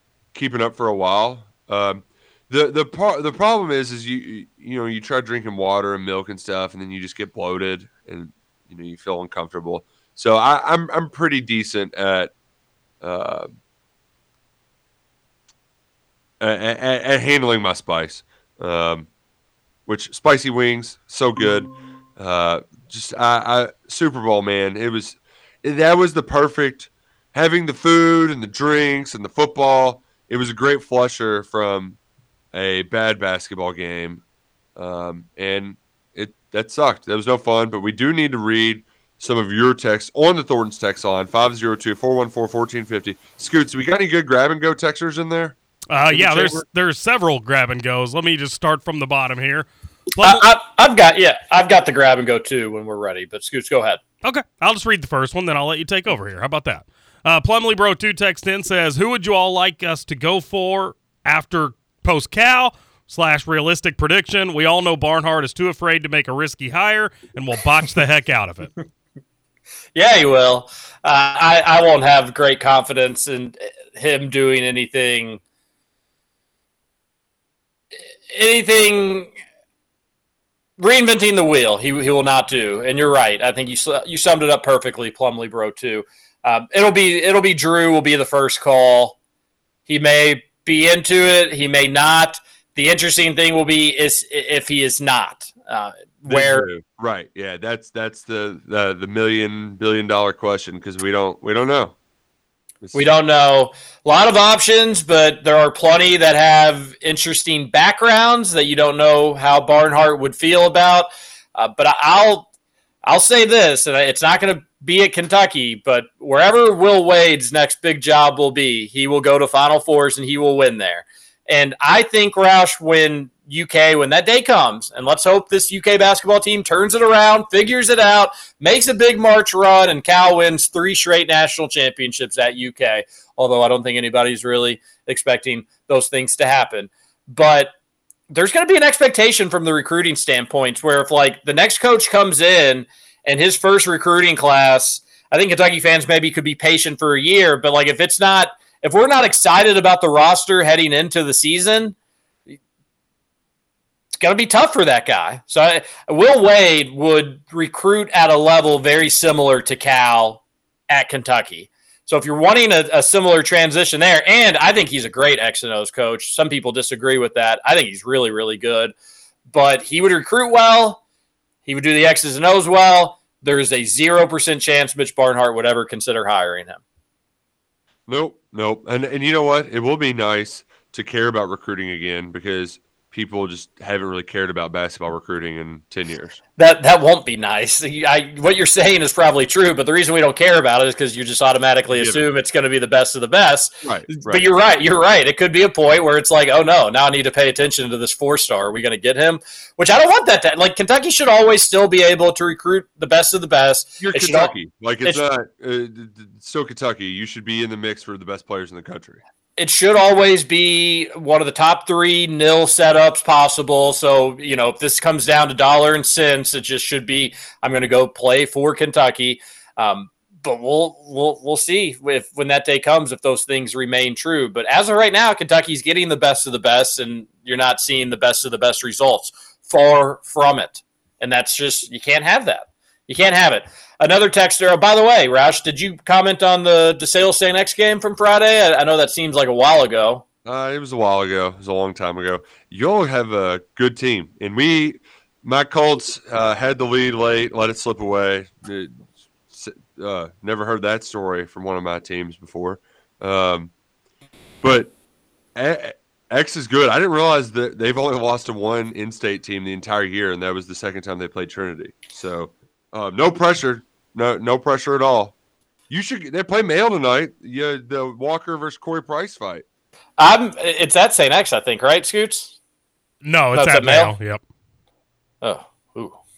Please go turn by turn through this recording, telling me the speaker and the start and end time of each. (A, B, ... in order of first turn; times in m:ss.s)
0:00.3-0:12.3 A
0:13.0-0:13.5 A
0:16.4-0:19.1 A
0:19.9-0:32.0 A
0:32.5-0:34.2 A
0:34.8-0:45.6 A
0:45.9-0:50.4 B
0:46.1-0:46.6 A
0:50.2-0:54.0 C
0:54.2-1:08.7 B
1:10.0-1:15.4 C
1:18.3-1:19.3 C
1:20.8-1:29.2 C
1:29.9-1:36.7 C
1:36.3-1:42.0 A
1:42.8-1:43.1 A
1:42.9-1:52.5 C
1:53.1-2:17.7 C
2:18.3-2:32.0 C
2:34.1-2:48.9 C
2:49.5-2:51.0 C
2:51.6-2:56.8 C
2:58.1-3:06.4 A
3:06.6-3:25.2 C
3:11.9-3:12.3 A
3:13.8-3:14.4 A
3:24.0-3:29.2 A
3:29.6-4:00.2 C
4:00.4-4:13.7 A
4:14.6-4:14.9 A
4:15.6-4:25.4 A
4:25.9-4:29.6 A
4:30.2-4:32.6 C
4:33.2-4:34.4 B
4:33.5-4:34.1 C
4:35.4-4:36.2 C